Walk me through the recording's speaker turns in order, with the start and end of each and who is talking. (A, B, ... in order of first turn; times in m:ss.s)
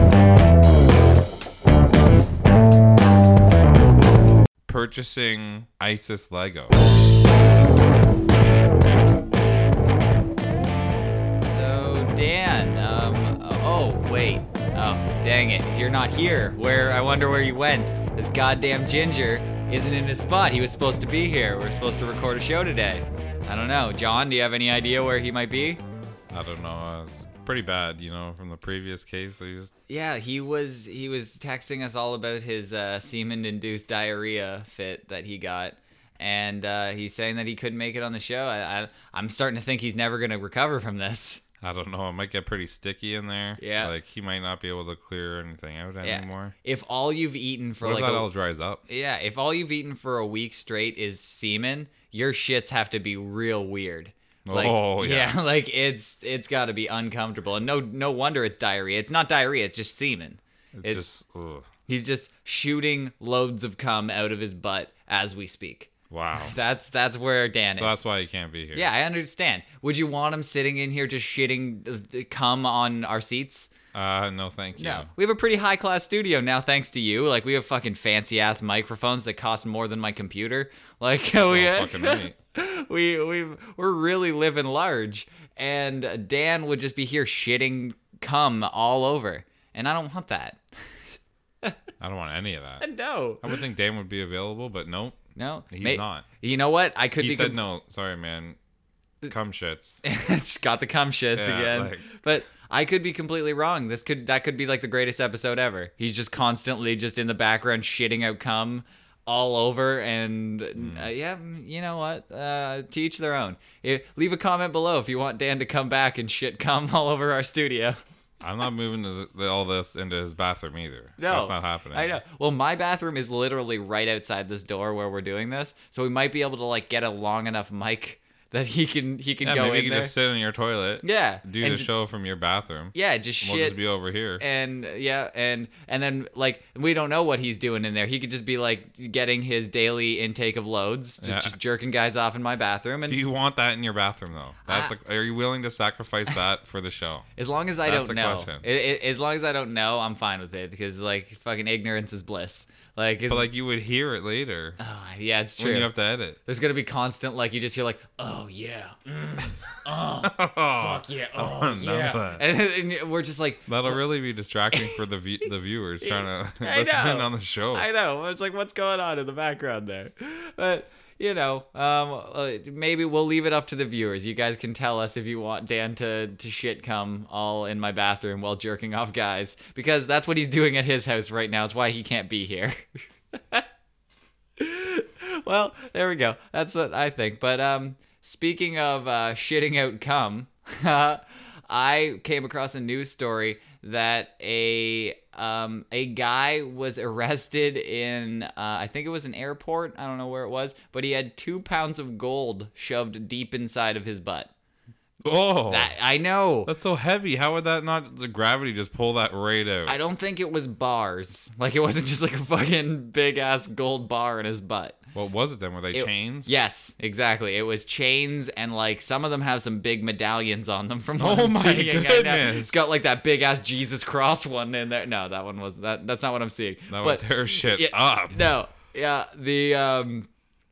0:04.7-0:06.7 A
0:11.5-0:25.8 B
0:26.3-0:29.7 A
0:29.9-0:41.4 B
0:41.6-0:46.5 A
0:43.6-0:43.9 B
0:46.0-0:48.3 B
0:47.8-0:48.8 A
0:48.9-1:01.0 B
0:54.5-0:55.4 A
1:00.8-1:01.7 A
1:01.9-1:08.0 B
1:06.1-1:06.6 A
1:07.8-1:08.9 A
1:08.7-1:13.7 B
1:13.9-1:15.1 A
1:14.8-1:30.6 B
1:21.5-1:22.4 A
1:32.0-1:32.9 A
1:32.8-1:33.6 B
1:33.4-1:35.2 A
1:35.4-1:37.6 B
1:35.7-1:36.2 A
1:37.2-1:38.6 A
1:39.3-1:40.0 A
1:40.0-1:58.0 B
1:41.4-1:42.1 A
1:50.8-1:51.1 A
1:58.4-2:02.2 A
2:01.2-2:10.1 B
2:09.4-2:14.4 A
2:11.0-2:11.9 B
2:12.9-2:13.8 B
2:14.4-2:23.2 B
2:21.2-2:21.6 A
2:23.1-2:27.3 A
2:24.7-2:24.9 B
2:27.4-2:33.5 B
2:27.8-2:28.6 A
2:33.3-2:34.8 A
2:34.8-2:35.9 B
2:35.6-2:36.4 A
2:36.4-2:44.0 B
2:40.2-2:42.4 A
2:43.7-2:47.9 A
2:44.7-2:45.0 B
2:46.0-3:03.6 B
3:04.6-3:24.5 B
3:25.2-3:25.9 A
3:25.7-3:26.7 B
3:26.7-3:30.0 A
3:29.9-3:35.0 B
3:35.2-3:36.5 A
3:35.9-3:50.3 B
3:41.2-3:42.8 A
3:46.9-3:48.5 A